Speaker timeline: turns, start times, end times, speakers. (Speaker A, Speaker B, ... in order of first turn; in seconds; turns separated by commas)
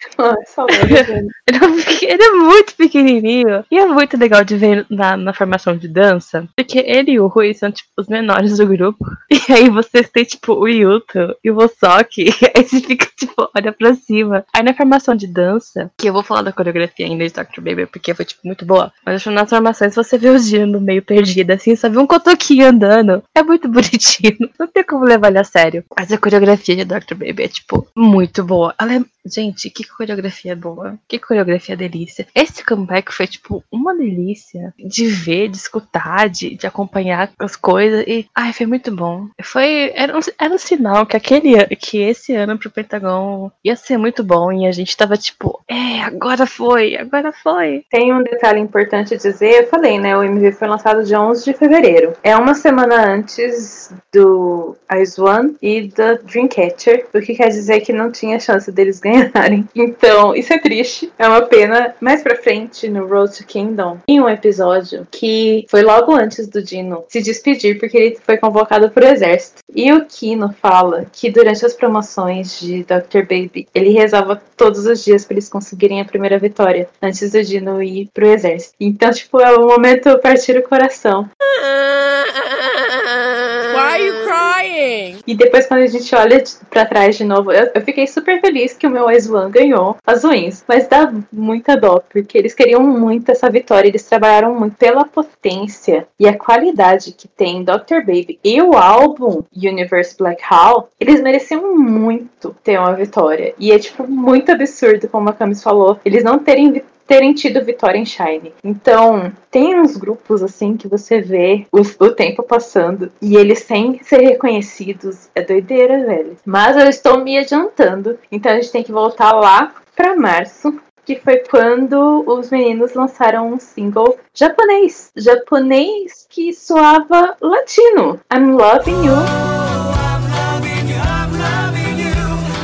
Speaker A: 0.2-1.3, Speaker B: 0.7-47.8, Speaker A: 47.9-81.3, Speaker C: 81.6-85.2, Speaker A: 85.3-129.3, Speaker C: 129.3-132.4